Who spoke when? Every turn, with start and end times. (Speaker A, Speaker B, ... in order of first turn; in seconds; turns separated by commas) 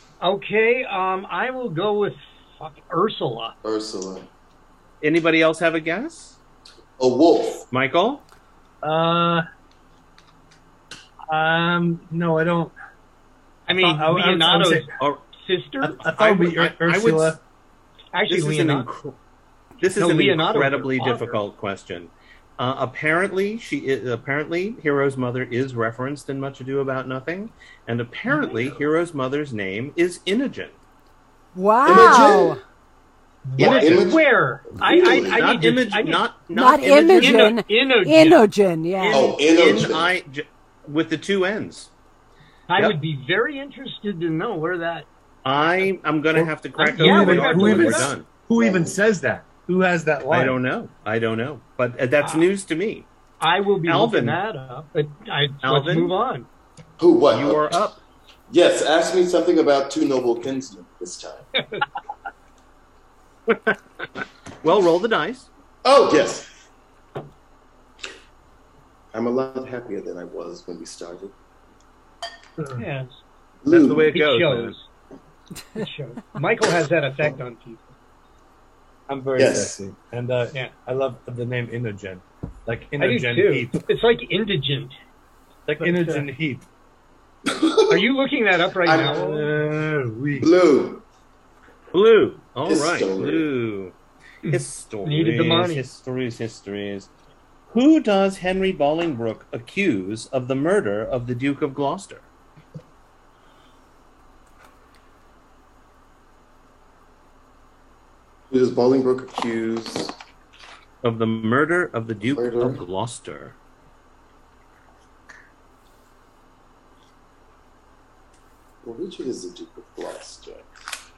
Speaker A: 0.2-3.6, Speaker B: 3.6-4.3, Speaker C: 5.0-6.4, Speaker B: 7.0-7.7, Speaker C: 7.7-8.2, Speaker D: 8.8-9.4, Speaker D: 11.3-12.7, Speaker A: 13.7-16.0, Speaker D: 13.8-14.9, Speaker C: 15.0-15.2, Speaker D: 15.8-17.4, Speaker C: 16.0-17.4, Speaker A: 18.1-18.9, Speaker C: 18.3-19.2, Speaker C: 19.8-30.8, Speaker A: 20.0-21.4, Speaker E: 31.6-32.6, Speaker B: 31.9-32.6, Speaker A: 33.5-36.3, Speaker B: 33.6-35.4, Speaker C: 33.6-34.0, Speaker C: 35.3-37.6, Speaker E: 36.5-39.3, Speaker A: 37.2-38.4, Speaker B: 39.1-40.1, Speaker C: 39.3-41.9, Speaker A: 42.7-45.1, Speaker C: 45.4-48.3, Speaker D: 46.4-50.6, Speaker A: 46.8-48.2, Speaker B: 48.6-49.0, Speaker C: 50.3-53.1, Speaker A: 52.2-52.5, Speaker A: 53.4-56.5, Speaker C: 53.9-54.4, Speaker C: 55.6-56.1, Speaker B: 57.0-57.7, Speaker C: 57.3-58.0, Speaker B: 58.5-61.5, Speaker A: 61.5-61.8, Speaker C: 63.5-63.8, Speaker C: 64.6-65.5, Speaker B: 65.8-66.5, Speaker B: 69.1-71.3, Speaker D: 72.6-72.8, Speaker A: 72.8-73.2, Speaker B: 73.6-74.2, Speaker C: 73.7-74.8, Speaker A: 74.1-74.9, Speaker A: 75.8-77.9, Speaker D: 79.1-83.8, Speaker B: 79.4-79.8, Speaker A: 83.0-85.0, Speaker D: 85.7-86.7, Speaker A: 85.8-86.3, Speaker B: 87.5-88.1, Speaker A: 87.9-89.5, Speaker B: 88.8-89.2, Speaker D: 89.1-90.5, Speaker B: 90.4-91.0, Speaker C: 91.9-93.9, Speaker B: 92.7-93.5, Speaker A: 94.5-95.8, Speaker C: 94.5-97.1, Speaker C: 97.7-102.2, Speaker B: 108.5-110.2, Speaker C: 111.0-113.5, Speaker B: 112.3-112.8, Speaker B: 118.8-120.7